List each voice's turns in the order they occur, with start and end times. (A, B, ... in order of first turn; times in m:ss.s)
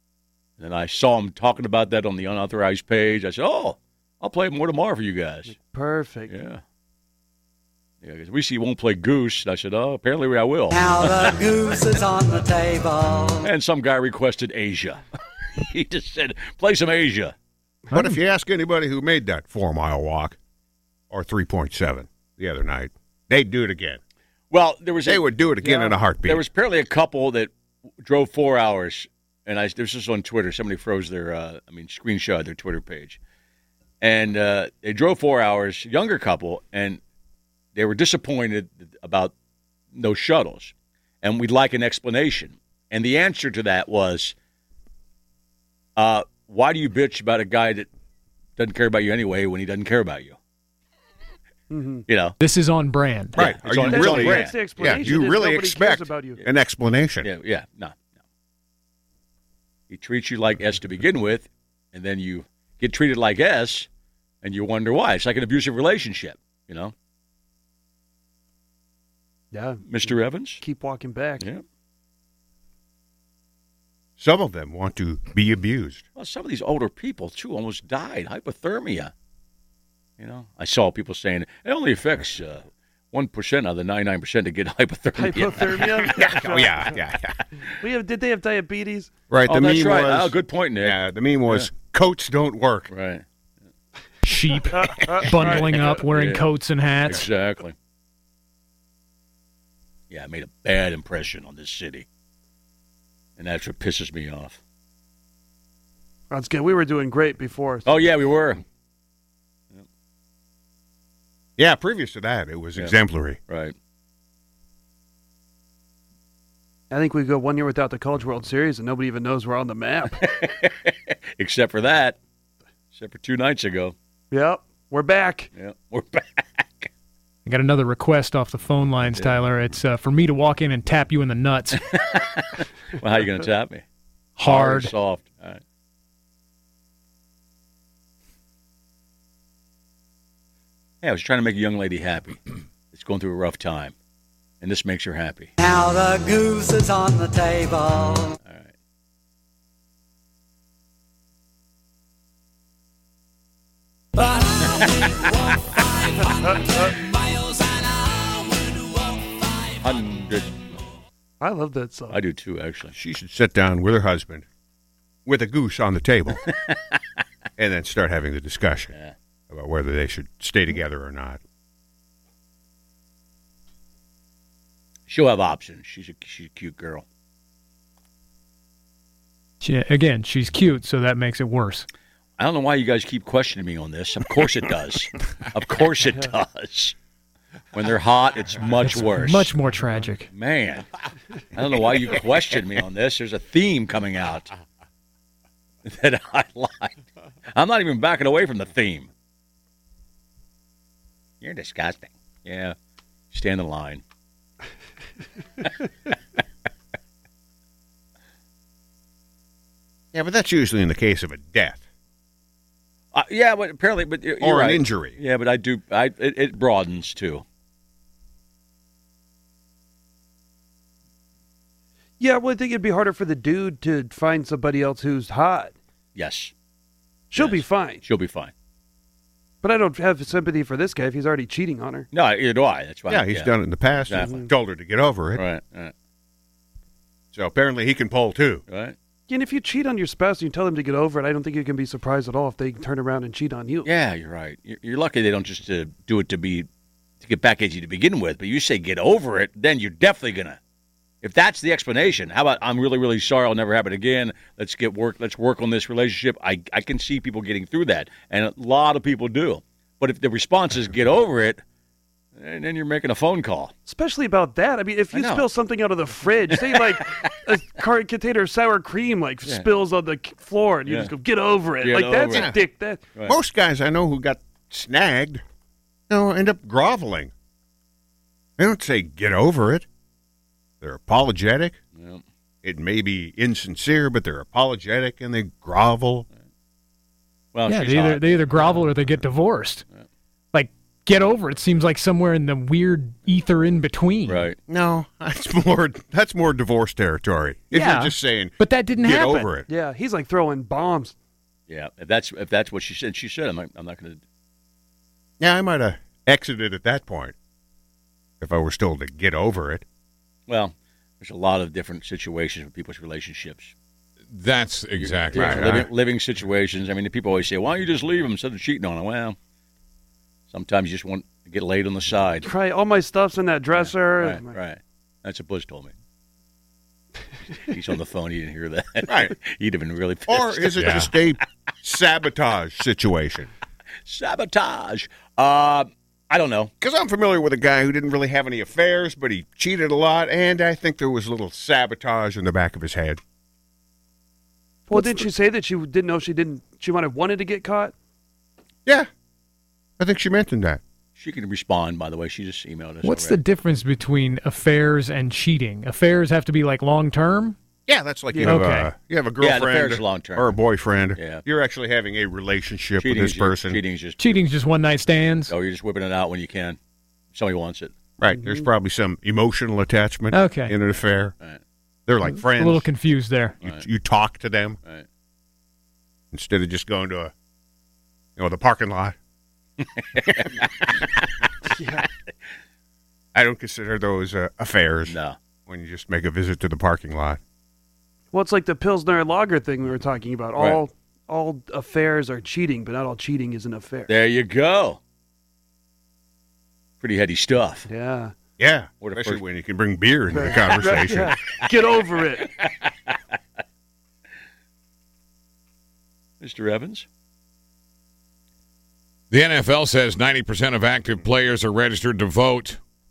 0:00.6-0:05.6 A
0:05.7-0:06.3 B
0:06.3-0:06.6 A
0:08.0-0:12.0 A
0:11.5-0:13.4 C
0:13.4-0:15.0 A
0:15.6-0:17.3 A
0:17.9-0:20.4 D
0:21.1-0:24.0 D
0:24.5-0:27.5 A
0:25.0-0:26.5 D
0:28.0-0:33.2 A
0:34.0-0:37.0 A
0:37.8-0:39.3 A
0:39.9-0:44.4 A
0:46.0-0:47.9 A
0:48.6-0:50.4 A
0:51.7-0:52.0 B
0:52.1-0:52.4 A
0:52.4-0:53.4 E
0:53.4-0:55.2 A
0:53.4-0:57.3 D
0:53.9-0:56.4 B
0:57.2-0:58.0 A
0:59.9-1:03.9 A
1:04.4-1:06.9 A
1:09.5-1:11.5 B
1:09.8-1:10.6 A
1:14.2-1:16.0 D
1:16.2-1:19.1 A
1:20.2-1:26.4 A
1:25.2-1:26.9 B
1:26.1-1:27.4 D
1:27.8-1:29.1 B
1:29.3-1:32.9 D
1:29.5-1:31.7 A
1:32.9-1:33.2 A
1:34.2-1:37.3 E
1:35.3-1:36.5 A
1:37.0-1:37.8 A
1:40.1-1:42.1 A
1:43.4-1:44.6 A
1:46.3-1:48.0 B
1:47.8-1:48.6 A
1:51.6-1:53.4 D
1:53.5-1:53.7 A
1:56.9-2:00.3 B
2:00.2-2:02.2 A
2:02.9-2:04.0 A
2:04.3-2:05.5 B
2:05.5-2:06.9 A
2:07.4-2:11.8 E
2:09.2-2:09.4 A
2:11.8-2:13.8 A
2:14.4-2:14.9 E
2:14.4-2:15.6 A
2:21.0-2:23.9 A
2:24.6-2:25.5 A
2:25.8-2:28.3 C
2:26.2-2:26.9 B
2:27.5-2:27.7 B
2:28.4-2:28.7 A
2:39.8-2:40.6 A
2:41.4-2:42.2 B
2:42.1-2:43.0 A
2:42.9-2:44.5 D
2:45.3-2:46.5 D
2:46.5-2:46.8 A
2:47.6-2:48.9 D
2:49.5-2:51.4 D
2:55.1-2:57.0 A
2:59.6-3:01.9 E
3:02.4-3:07.0 A
3:07.7-3:09.5 A
3:08.8-3:10.3 E
3:10.3-3:10.9 A
3:11.5-3:14.5 A
3:15.8-3:17.0 A
3:17.5-3:19.1 A
3:21.4-3:22.7 A
3:23.3-3:24.0 A
3:30.1-3:31.8 D
3:33.1-3:37.4 A
3:34.4-3:35.2 D
3:42.2-3:45.8 B
3:46.2-3:46.5 A
3:47.3-3:48.0 B
3:47.4-3:48.5 A
3:49.6-3:52.1 B
3:52.1-3:54.4 A
3:53.1-3:55.5 D
3:54.2-3:54.5 B
3:55.4-3:55.9 A
3:57.3-3:58.6 D
3:58.7-3:59.0 A
3:59.3-4:03.9 B
4:03.8-4:06.7 A
4:07.2-4:10.6 A
4:11.2-4:21.6 A
4:22.4-4:23.7 A
4:23.9-4:33.0 B
4:25.1-4:25.5 A
4:26.2-4:27.0 A
4:30.9-4:31.1 A
4:31.8-4:32.6 A
4:32.3-4:32.6 D
4:33.3-4:35.4 D
4:36.1-4:37.3 D
4:38.6-4:39.9 D
4:40.8-4:41.8 D
4:42.0-4:42.2 A
4:42.6-4:46.3 D
4:47.5-4:48.9 A
4:47.7-4:49.8 E
4:50.5-4:54.5 E
4:54.3-4:54.6 A
4:54.7-4:59.7 D
4:57.7-4:59.5 E
4:59.7-5:01.2 B
5:01.7-5:04.2 A
5:05.4-5:07.4 D
5:08.4-5:09.8 D
5:10.5-5:13.7 A
5:14.3-5:15.9 F
5:14.9-5:19.4 A
5:15.3-5:15.9 D
5:20.5-5:22.5 A
5:22.4-5:24.6 B
5:23.8-5:25.9 A
5:27.7-5:31.1 A
5:29.1-5:29.4 D
5:30.3-5:33.5 D
5:30.8-5:31.1 F
5:34.1-5:36.7 A
5:36.8-5:43.2 D
5:44.9-5:47.9 B
5:44.9-5:45.3 E
5:50.0-5:50.8 D
5:51.2-5:53.4 A
5:53.0-5:57.6 E
5:57.9-6:03.8 D
5:58.3-5:58.6 B
5:58.4-5:58.9 E
5:59.4-6:00.6 A
6:01.2-6:01.4 A
6:03.0-6:04.4 A
6:04.2-6:05.5 E
6:05.5-6:06.8 A
6:07.3-6:07.9 A
6:08.2-6:11.3 D
6:08.3-6:08.7 B
6:10.3-6:10.8 E
6:12.1-6:12.9 D
6:12.2-6:13.6 E
6:13.6-6:14.8 D
6:16.3-6:17.3 D
6:18.4-6:19.2 D
6:19.8-6:21.0 A
6:21.8-6:22.0 B
6:23.4-6:27.4 D
6:25.1-6:25.4 A
6:28.3-6:34.1 B
6:34.1-6:35.0 A
6:37.0-6:37.9 A
6:37.9-6:38.4 B
6:38.6-6:41.3 D
6:39.0-6:39.4 A
6:40.3-6:42.5 B
6:42.6-6:43.2 A
6:46.4-6:47.1 A
6:49.3-6:52.8 F